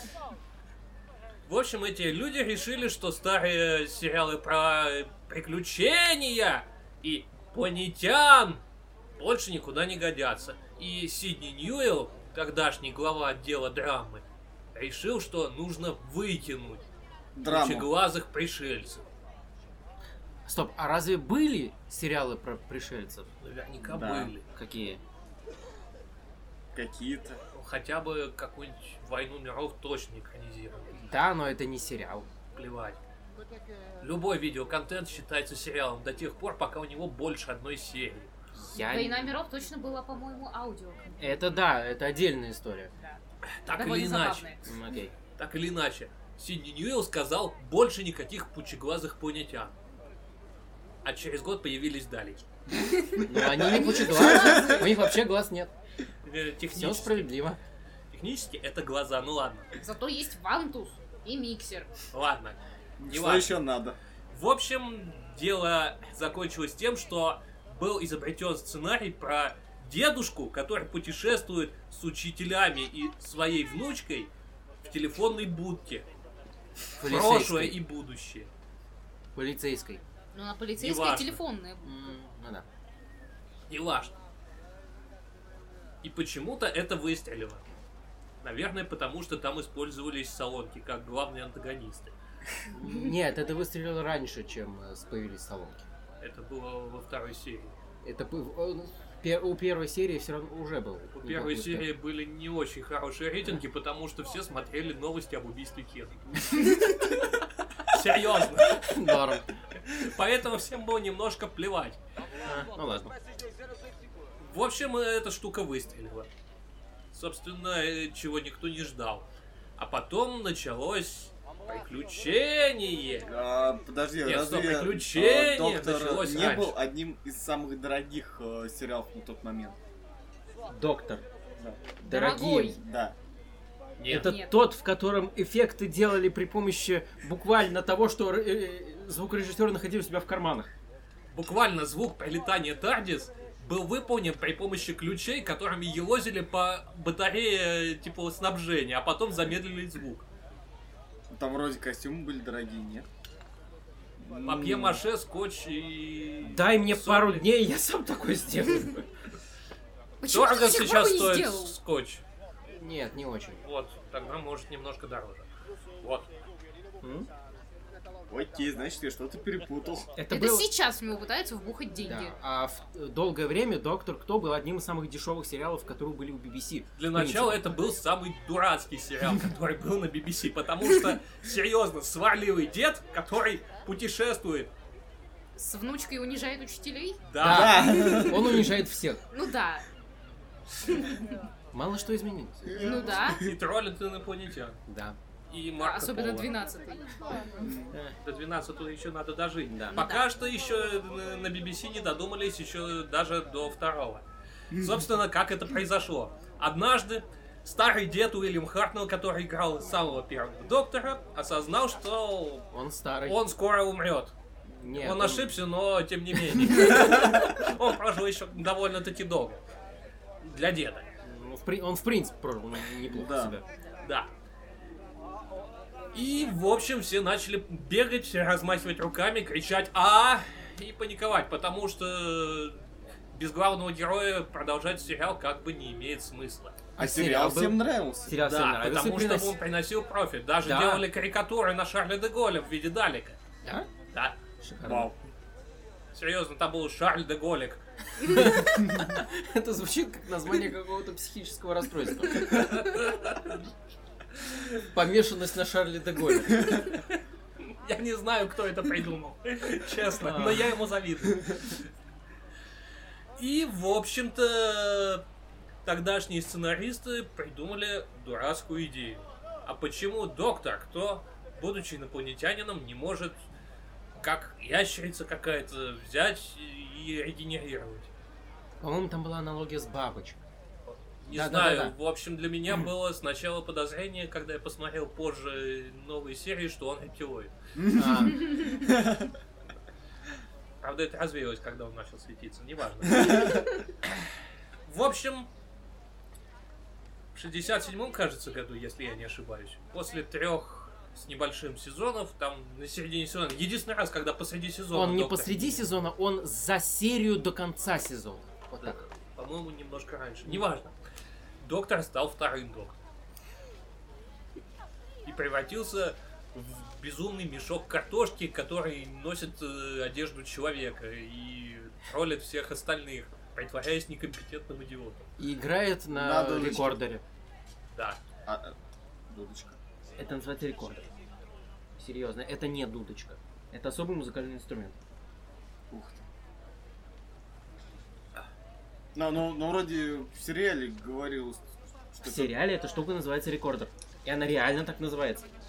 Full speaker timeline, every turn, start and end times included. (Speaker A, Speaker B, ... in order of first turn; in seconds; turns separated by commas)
Speaker A: 1.5-8.6, Speaker A: 9.2-16.8, Speaker B: 17.3-17.9, Speaker A: 17.4-19.1, Speaker C: 20.4-23.3, Speaker A: 23.4-24.4, Speaker B: 23.8-24.3, Speaker C: 24.5-25.0, Speaker B: 26.7-27.4, Speaker A: 27.5-31.0, Speaker C: 31.0-32.3, Speaker A: 32.5-33.0, Speaker A: 34.0-38.3, Speaker C: 38.5-39.4, Speaker D: 38.7-41.4, Speaker C: 41.2-42.9, Speaker A: 43.5-44.5, Speaker D: 43.7-44.6, Speaker C: 44.6-45.1, Speaker A: 45.4-49.7, Speaker A: 51.0-52.5, Speaker D: 52.7-54.9, Speaker C: 53.2-55.7, Speaker B: 53.4-54.8, Speaker A: 56.2-57.3, Speaker C: 56.7-57.6, Speaker A: 58.1-59.7, Speaker D: 59.8-61.9, Speaker A: 62.1-62.6, Speaker B: 63.0-64.0, Speaker A: 63.1-63.6, Speaker A: 64.3-74.3, Speaker A: 74.8-76.1, Speaker C: 77.0-77.8, Speaker A: 77.0-78.5, Speaker C: 79.3-80.0, Speaker D: 80.3-81.9, Speaker A: 80.8-81.4, Speaker C: 81.8-82.6, Speaker A: 83.7-84.1, Speaker A: 86.0-87.6, Speaker A: 88.4-92.1, Speaker C: 92.7-95.8, Speaker A: 96.2-97.8, Speaker C: 98.0-101.9, Speaker A: 101.1-106.8, Speaker A: 107.8-108.9, Speaker C: 108.7-109.4, Speaker A: 109.8-112.0, Speaker C: 112.4-113.1, Speaker A: 114.4-116.3, Speaker A: 117.1-119.2, Speaker A: 119.8-123.3, Speaker B: 123.2-129.8, Speaker A: 124.2-126.8, Speaker C: 130.7-131.2, Speaker B: 131.6-131.9, Speaker C: 132.0-132.8, Speaker D: 132.1-132.8, Speaker B: 132.8-133.1, Speaker A: 134.0-134.3, Speaker C: 134.1-140.7, Speaker D: 134.1-134.5, Speaker A: 141.3-150.3, Speaker B: 151.3-153.1, Speaker B: 154.2-155.0, Speaker A: 154.4-157.4, Speaker C: 156.4-159.1, Speaker D: 160.2-161.7, Speaker A: 160.3-162.2, Speaker C: 162.7-163.6, Speaker A: 163.6-165.5, Speaker A: 166.0-166.3, Speaker C: 167.0-167.3, Speaker B: 168.3-170.1, Speaker C: 170.2-170.7, Speaker D: 170.3-172.3, Speaker C: 172.0-177.6, Speaker A: 177.0-184.7, Speaker D: 185.6-187.2, Speaker A: 187.2-188.0, Speaker C: 187.4-189.2, Speaker B: 187.4-188.7, Speaker D: 187.9-188.6, Speaker D: 189.3-189.8, Speaker D: 190.9-191.3, Speaker C: 191.7-192.9, Speaker B: 192.7-193.5, Speaker D: 192.8-193.4, Speaker A: 193.3-194.8, Speaker C: 194.9-195.2, Speaker A: 195.5-196.5, Speaker D: 195.8-197.1, Speaker B: 197.6-197.9, Speaker A: 198.2-212.7, Speaker C: 199.7-200.0, Speaker D: 199.9-200.2, Speaker B: 204.7-205.0, Speaker C: 212.7-213.4, Speaker A: 213.2-214.3, Speaker C: 214.7-215.5, Speaker A: 214.9-219.6, Speaker A: 220.4-221.1, Speaker C: 221.2-223.6, Speaker B: 223.0-223.6, Speaker A: 224.0-224.3, Speaker A: 226.1-232.8, Speaker A: 233.3-236.8, Speaker C: 237.0-239.5, Speaker B: 237.0-238.3, Speaker A: 238.3-243.4, Speaker C: 240.6-241.0, Speaker A: 244.1-244.4, Speaker C: 244.6-245.1, Speaker B: 244.8-245.2, Speaker A: 246.1-247.8, Speaker C: 248.2-252.7, Speaker A: 252.3-253.6, Speaker A: 254.4-254.7, Speaker C: 254.9-256.8, Speaker A: 256.7-261.8, Speaker C: 260.2-260.7, Speaker A: 263.4-265.2, Speaker A: 265.8-273.4, Speaker A: 274.2-278.1, Speaker C: 278.8-280.4, Speaker A: 280.9-287.5, Speaker C: 281.3-281.9, Speaker B: 287.8-289.3, Speaker C: 287.9-288.5, Speaker A: 290.8-294.1, Speaker A: 294.9-295.5, Speaker A: 297.3-305.9, Speaker C: 304.9-309.0, Speaker A: 308.8-310.9, Speaker A: 311.6-313.0, Speaker A: 315.2-325.3, Speaker C: 325.4-327.2, Speaker B: 326.1-327.0, Speaker A: 327.9-328.2, Speaker B: 328.4-328.8, Speaker B: 329.3-329.8, Speaker C: 330.2-331.1, Speaker C: 332.0-335.0, Speaker B: 335.9-336.2, Speaker B: 339.1-342.5, Speaker C: 342.2-345.4